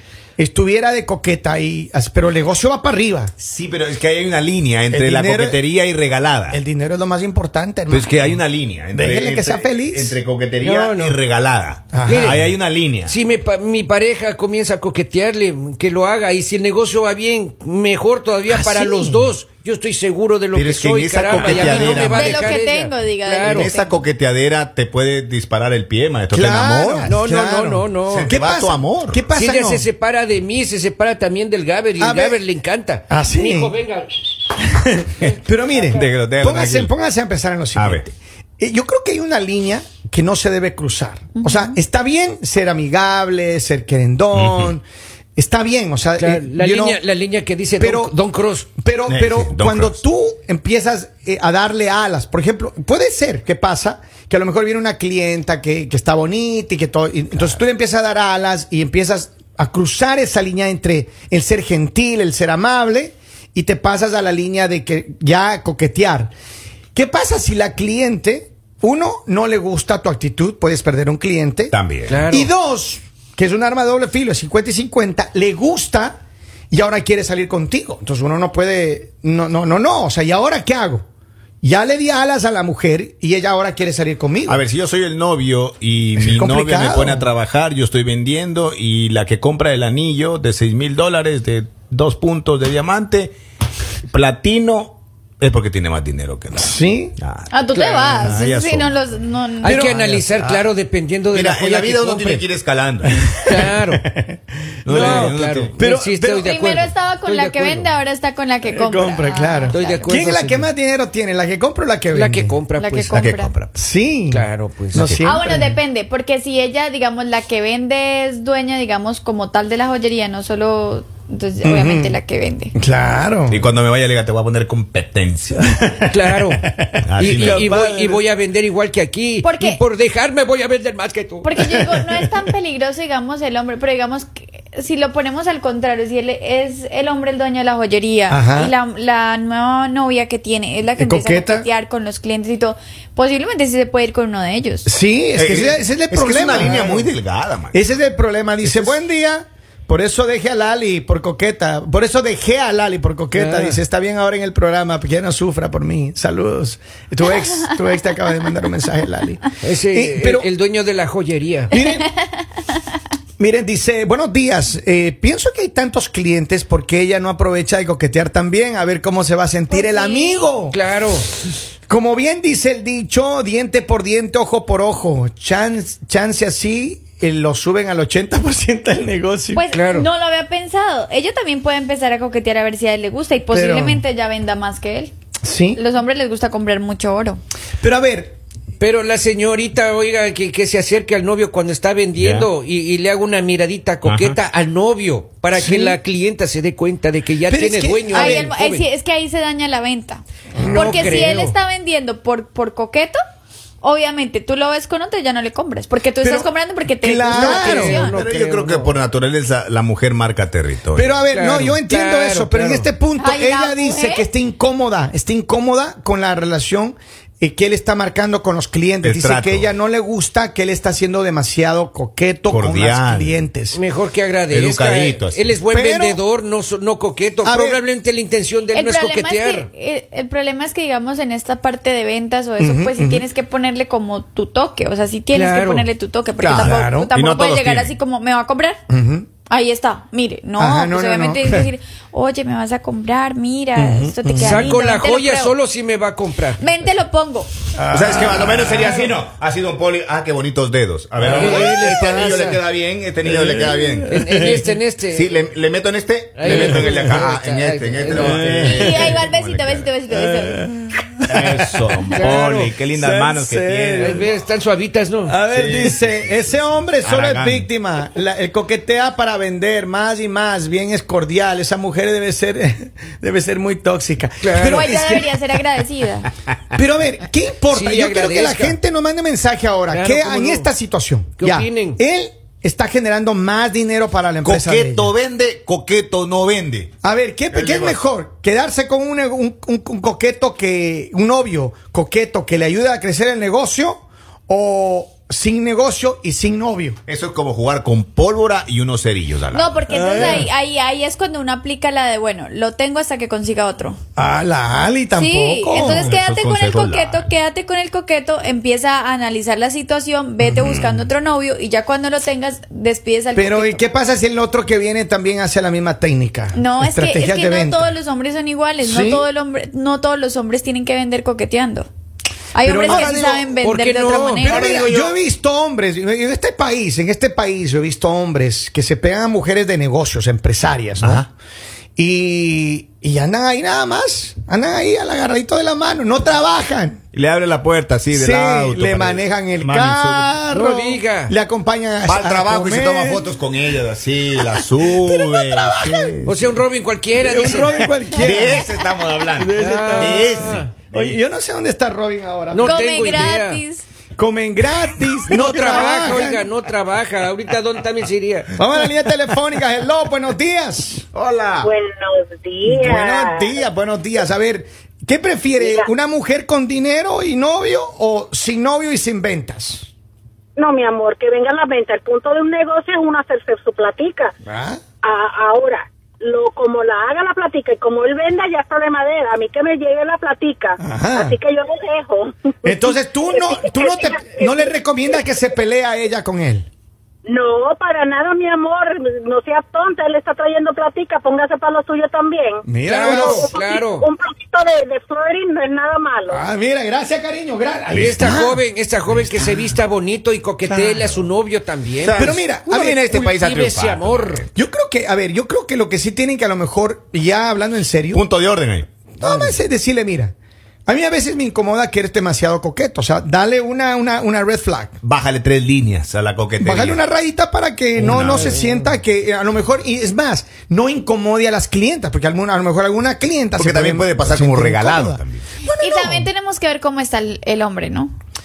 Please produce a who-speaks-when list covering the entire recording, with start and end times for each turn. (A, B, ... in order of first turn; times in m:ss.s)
0:00.4-0:03.3 A
0:03.4-0:06.6 B
0:04.9-0:05.6 A
0:06.5-0:08.3 A
0:07.9-0:13.1 B
0:08.9-0:10.2 A
0:10.6-0:11.2 C
0:11.9-0:12.5 A
0:12.0-0:12.5 C
0:13.0-0:23.7 C
0:18.5-0:19.3 A
0:20.5-0:22.6 B
0:21.4-0:24.0 D
0:23.4-0:27.2 B
0:26.3-0:29.9 A
0:27.1-0:28.3 C
0:28.1-0:29.2 B
0:29.3-0:34.4 C
0:32.0-0:32.4 A
0:33.1-0:33.7 A
0:34.8-0:44.8 A
0:35.9-0:36.9 B
0:37.7-0:38.0 B
0:41.3-0:41.8 D
0:44.3-0:44.7 B
0:45.4-0:47.0 A
0:46.2-0:48.7 C
0:47.8-0:48.2 A
0:48.8-1:06.3 A
0:49.1-0:50.0 B
1:06.9-1:11.7 A
1:11.7-1:12.2 B
1:12.1-1:12.5 C
1:12.3-1:16.2 A
1:16.7-1:21.0 A
1:21.6-1:24.6 A
1:24.5-1:33.4 B
1:26.2-1:27.2 A
1:34.1-1:38.9 B
1:36.6-1:37.1 A
1:37.5-1:39.9 D
1:39.6-1:42.5 C
1:39.6-1:40.6 A
1:41.3-1:43.3 B
1:43.1-1:46.5 A
1:43.4-1:44.0 C
1:44.8-1:45.7 B
1:44.9-1:47.9 C
1:46.4-1:50.2 D
1:48.6-1:52.5 A
1:49.7-1:50.7 C
1:52.1-1:53.2 C
1:52.8-1:53.5 D
1:53.1-1:53.7 B
1:53.7-1:55.8 A
1:54.3-1:55.1 C
1:55.0-1:55.2 B
1:55.2-2:02.7 D
2:01.6-2:02.2 A
2:02.8-2:03.6 A
2:03.5-2:05.6 B
2:05.6-2:08.2 A
2:06.1-2:06.6 C
2:07.0-2:07.7 B
2:07.2-2:11.5 C
2:09.4-2:09.8 D
2:11.4-2:24.9 D
2:11.6-2:12.5 A
2:18.3-2:18.7 A
2:21.0-2:21.7 A
2:24.8-2:27.1 A
2:25.4-2:27.8 B
2:27.7-2:40.5 A
2:28.6-2:28.9 B
2:33.3-2:33.8 C
2:39.6-2:41.7 C
2:41.7-2:42.1 A
2:41.7-2:42.1 D
2:43.4-2:50.8 A
2:49.7-2:50.5 D
2:50.7-2:51.3 C
2:51.9-2:59.6 A
2:59.5-3:05.1 D
2:59.7-3:00.1 C
3:03.5-3:04.0 A
3:05.4-3:05.8 A
3:05.7-3:07.4 D
3:07.8-3:08.4 A
3:08.8-3:18.8 C
3:12.1-3:12.5 B
3:14.0-3:14.4 B
3:15.5-3:16.0 A
3:17.5-3:18.5 A
3:18.1-3:23.2 D
3:20.6-3:21.4 A
3:20.6-3:21.5 C
3:23.8-3:28.2 D
3:26.2-3:28.0 A
3:27.3-3:29.0 C
3:27.8-3:31.1 B
3:30.9-3:43.8 A
3:31.3-3:32.9 C
3:33.2-3:34.3 D
3:39.0-3:39.7 B
3:42.5-3:43.3 B
3:43.7-3:49.7 C
3:44.5-3:45.6 B
3:45.7-3:46.2 A
3:47.4-3:47.8 A
3:48.7-3:58.8 D
3:52.6-3:53.2 A
3:55.3-3:55.9 C
3:56.4-3:57.1 A
3:56.4-3:57.9 B
3:58.9-3:59.3 A
3:59.5-4:05.6 D
4:00.6-4:01.7 A
4:03.7-4:04.7 A
4:04.4-4:06.6 C
4:06.6-4:07.5 D
4:07.7-4:09.0 A
4:07.9-4:14.5 B
4:11.2-4:12.0 A
4:11.2-4:12.6 C
4:13.2-4:14.6 A
4:14.1-4:15.3 C
4:15.1-4:19.9 B
4:16.4-4:19.0 C
4:16.4-4:17.2 A
4:18.1-4:19.2 A
4:18.6-4:20.7 D
4:20.1-4:22.4 A
4:21.3-4:24.3 B
4:22.1-4:22.8 C
4:22.9-4:24.3 A
4:24.0-4:25.4 C
4:25.2-4:35.6 A
4:25.5-4:26.0 B
4:27.0-4:27.6 B
4:34.4-4:34.8 C
4:34.6-4:36.3 D
4:36.7-4:45.1 A
4:37.7-4:38.8 C
4:39.9-4:40.7 C
4:41.4-4:42.0 C
4:44.4-4:46.9 B
4:47.0-4:57.0 A
4:47.5-4:48.0 B
4:57.1-4:59.8 B
4:59.5-5:04.0 D
4:59.9-5:00.5 A
5:04.2-5:06.1 A
5:05.1-5:13.9 D
5:05.7-5:07.3 B
5:10.4-5:10.8 A
5:13.3-5:17.9 A
5:16.5-5:21.9 D
5:18.8-5:19.3 A
5:22.5-5:24.7 D
5:22.6-5:23.5 A
5:23.1-5:25.0 C
5:24.4-5:31.3 A
5:24.4-5:25.1 B
5:31.0-5:31.2 B
5:32.0-5:37.0 A
5:37.1-5:40.3 B
5:38.1-5:43.4 A
5:40.5-5:41.3 C
5:42.0-5:46.6 B
5:44.3-5:46.2 A
5:46.2-5:47.9 C
5:47.2-5:48.7 A
5:48.1-5:51.2 B
5:49.3-5:53.3 A
5:49.6-5:50.7 C
5:52.5-5:53.6 C
5:52.6-5:53.8 D
5:54.2-5:56.5 A
5:55.3-5:58.5 C
5:58.6-6:01.0 A
6:01.1-6:01.7 B
6:01.6-6:03.6 E
6:02.6-6:09.9 A
6:05.6-6:05.9 E
6:10.6-6:14.3 E
6:14.4-6:14.8 A
6:15.0-6:24.7 E
6:20.8-6:21.3 A
6:22.6-6:26.7 A
6:27.2-6:32.6 E
6:32.6-6:33.5 A
6:32.8-6:34.1 C
6:33.2-6:36.4 E
6:36.3-6:38.6 A
6:37.9-6:42.2 C
6:40.6-6:41.0 A
6:42.0-6:44.4 B
6:42.1-6:43.2 A
6:43.1-6:44.4 C
6:44.5-6:48.2 A
6:48.1-6:48.9 B
6:49.2-6:50.3 A
6:49.2-6:49.6 C
6:50.9-6:55.0 A
6:55.0-6:57.0 B
6:56.6-7:06.3 A
6:58.0-6:58.6 B
6:58.3-6:58.8 C
7:03.6-7:05.4 B
7:05.8-7:08.1 D